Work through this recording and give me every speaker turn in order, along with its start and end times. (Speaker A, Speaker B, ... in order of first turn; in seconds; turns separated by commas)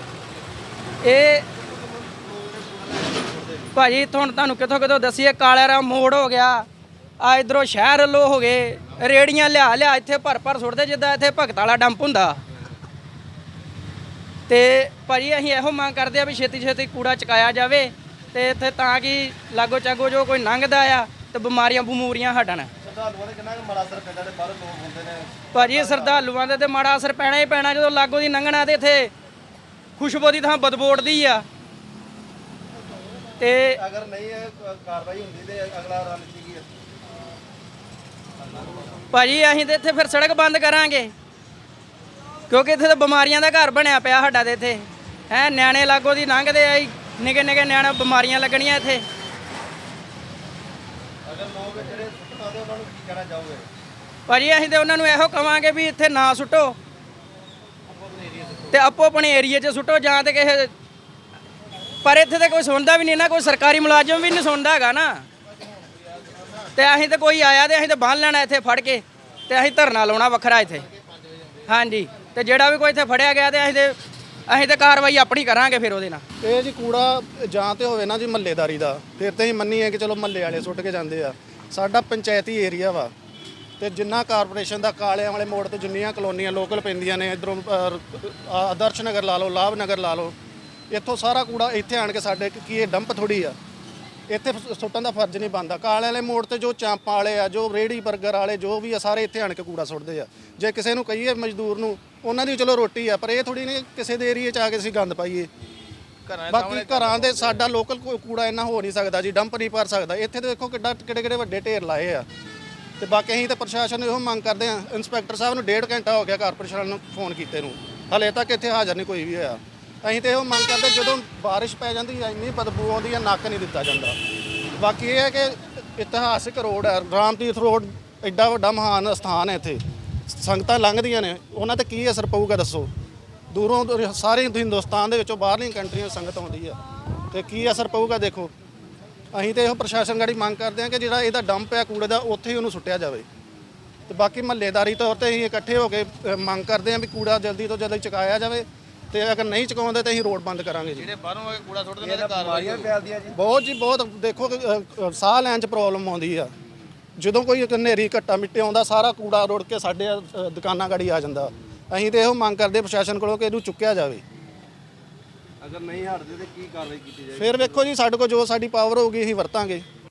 Speaker A: 1.0-1.4, Speaker B: 1.6-3.7, Speaker A: 3.7-6.7, Speaker A: 7.2-12.4, Speaker A: 14.5-22.7, Speaker B: 22.8-26.2, Speaker A: 25.5-29.1, Speaker A: 30.0-31.4, Speaker A: 33.4-33.8, Speaker B: 33.7-36.8, Speaker A: 39.1-41.1, Speaker A: 42.5-49.0, Speaker B: 51.2-53.7, Speaker A: 54.3-56.8, Speaker A: 58.7-60.7, Speaker A: 62.0-65.2, Speaker A: 66.7-70.8, Speaker A: 71.7-74.0, Speaker A: 74.5-76.2, Speaker C: 76.4-83.1, Speaker C: 83.8-90.3, Speaker C: 90.9-93.5, Speaker C: 94.3-105.5, Speaker D: 106.3-107.7, Speaker C: 106.5-112.2, Speaker C: 113.0-124.2, Speaker C: 124.7-132.9, Speaker C: 133.5-136.8, Speaker C: 137.3-138.5, Speaker C: 139.3-143.2, Speaker C: 144.1-151.1, Speaker D: 151.0-152.9, Speaker B: 152.0-153.4, Speaker C: 153.3-156.5, Speaker C: 157.2-164.2, Speaker B: 165.6-167.8, Speaker C: 167.3-169.8